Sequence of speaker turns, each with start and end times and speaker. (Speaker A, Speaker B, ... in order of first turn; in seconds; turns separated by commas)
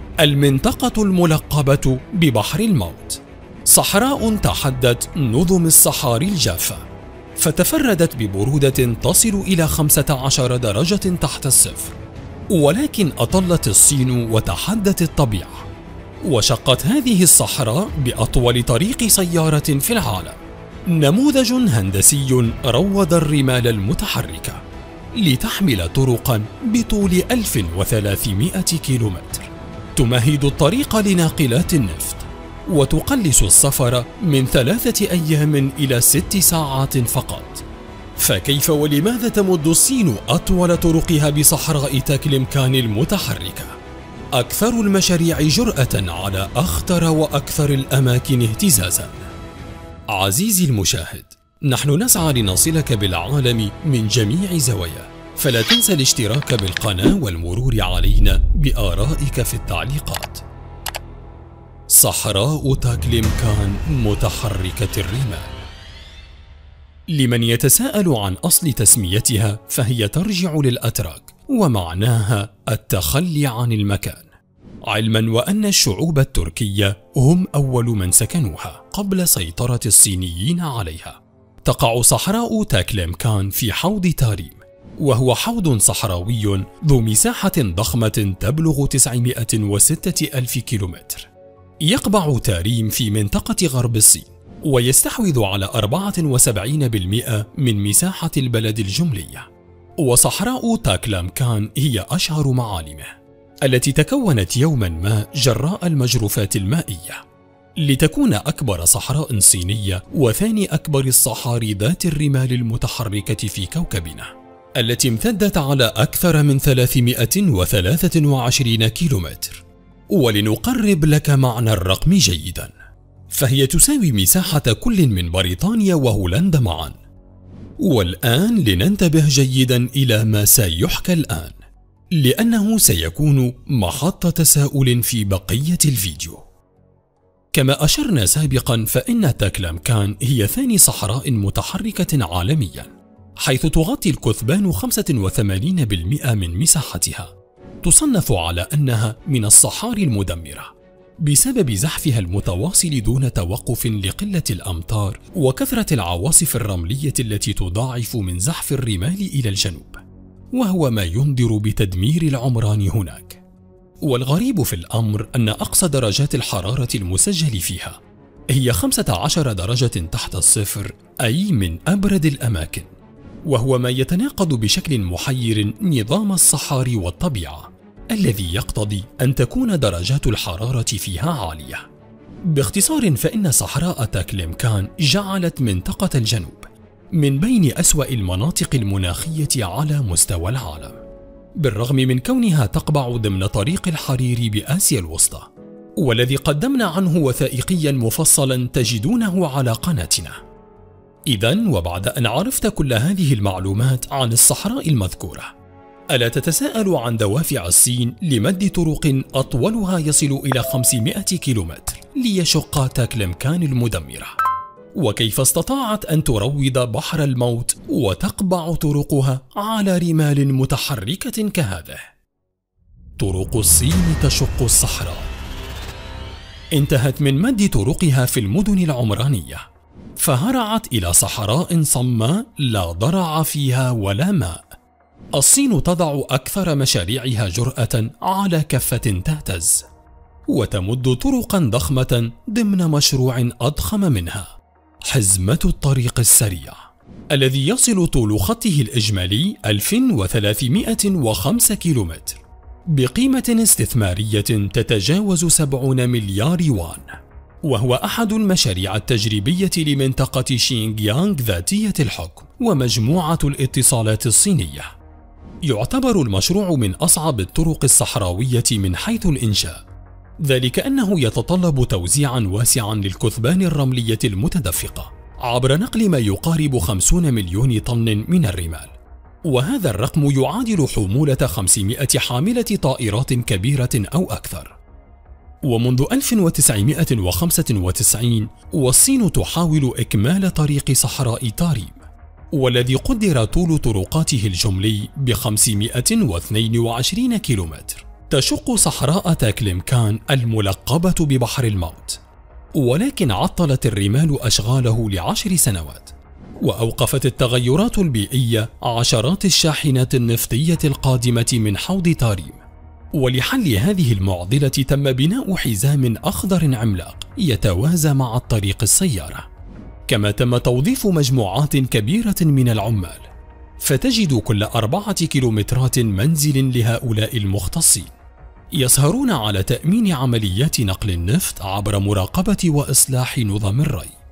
Speaker A: 0.2-6.8, Speaker A: 7.4-12.0, Speaker A: 12.5-15.7, Speaker A: 16.2-20.4, Speaker A: 20.9-24.6, Speaker A: 25.1-37.6, Speaker A: 38.2-43.8, Speaker A: 44.3-49.3, Speaker A: 50.1-60.4, Speaker A: 61.9-65.6, Speaker A: 67.1-74.3, Speaker A: 74.9-91.3, Speaker A: 91.8-99.5, Speaker A: 100.0-107.2, Speaker A: 107.8-122.7, Speaker A: 123.3-127.0, Speaker A: 127.8-131.6, Speaker A: 132.1-136.4, Speaker A: 137.5-147.3, Speaker A: 147.8-163.4, Speaker A: 164.0-168.0, Speaker A: 168.5-172.9, Speaker A: 173.4-181.8, Speaker A: 182.5-191.0, Speaker A: 191.6-200.4, Speaker A: 201.3-205.5, Speaker A: 206.1-214.4, Speaker A: 214.9-222.0, Speaker A: 223.2-225.3, Speaker A: 226.7-229.6, Speaker A: 230.2-234.7, Speaker A: 235.3-239.9, Speaker A: 240.5-244.5, Speaker A: 245.1-246.8, Speaker A: 247.3-252.4, Speaker A: 252.9-264.9, Speaker A: 265.6-269.8, Speaker A: 270.4-278.9, Speaker A: 279.4-284.8, Speaker A: 285.6-302.2, Speaker A: 302.8-312.6, Speaker A: 313.1-319.5, Speaker A: 320.1-323.3, Speaker A: 323.8-328.1, Speaker A: 328.8-334.1